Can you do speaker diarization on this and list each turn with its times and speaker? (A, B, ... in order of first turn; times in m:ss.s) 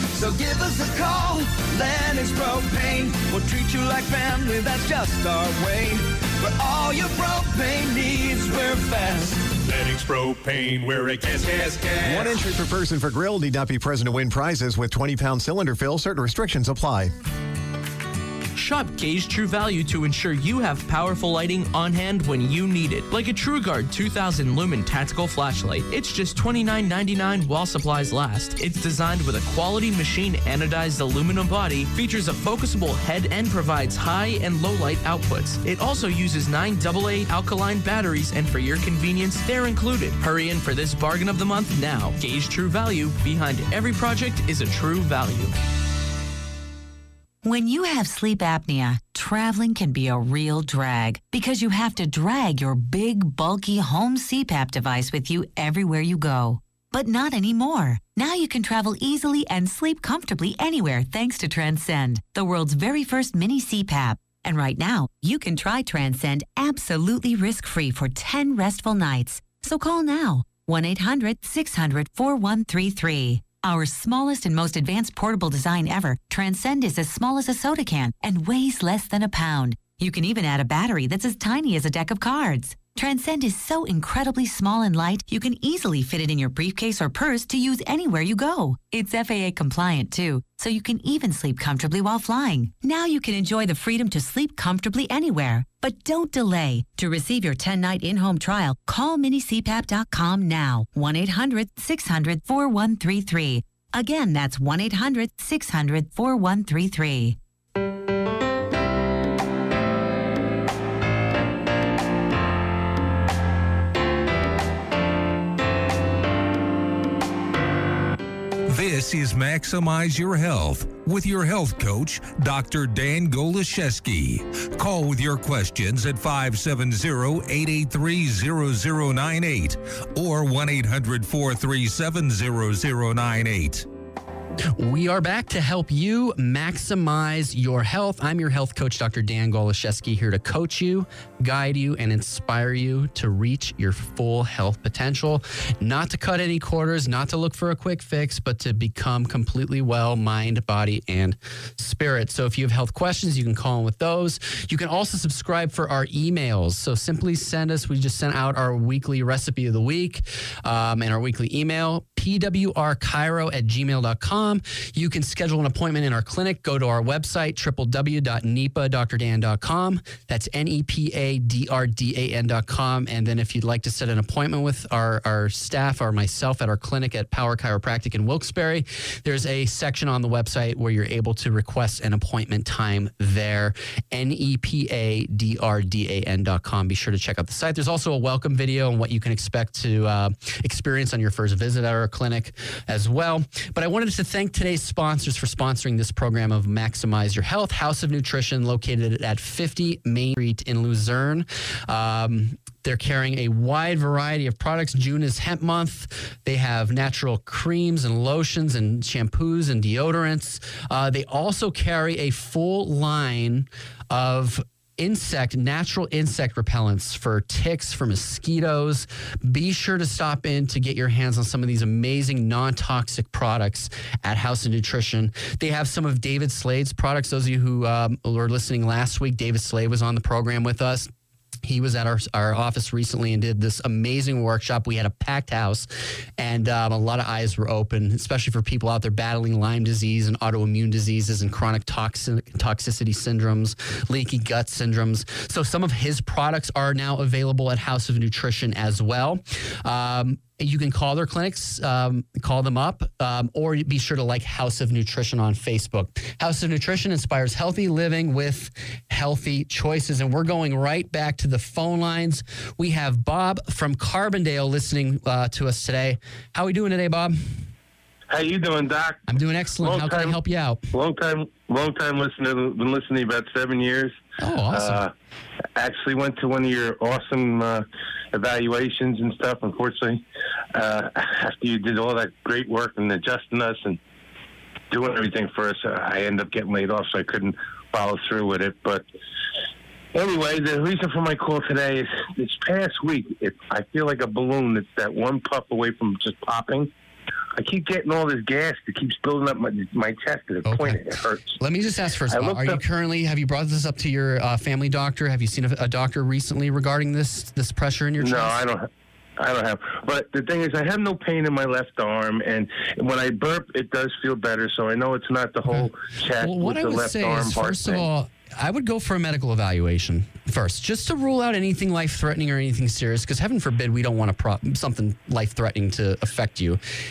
0:00.1-0:09.5 A
0:09.6-0:12.4 B
0:12.0-0:17.1 C
0:18.6-0:45.5 D
0:47.4-1:47.4 E
1:58.7-2:13.8 F
2:14.7-3:51.1 G
3:51.6-4:27.5 G
4:28.3-4:29.2 H
4:29.3-4:30.9 G
4:29.8-4:30.4 H
4:30.9-4:34.2 H
4:34.4-4:35.0 G
4:34.7-4:35.1 H
4:35.8-4:40.2 H
4:40.7-4:44.0 H
4:44.9-4:49.0 H
4:50.1-4:56.9 H
4:57.6-5:01.6 H
5:00.6-5:01.0 G
5:01.6-5:08.6 G
5:02.3-5:02.8 H
5:08.2-5:08.8 H
5:09.4-5:18.1 H
5:15.7-5:26.8 G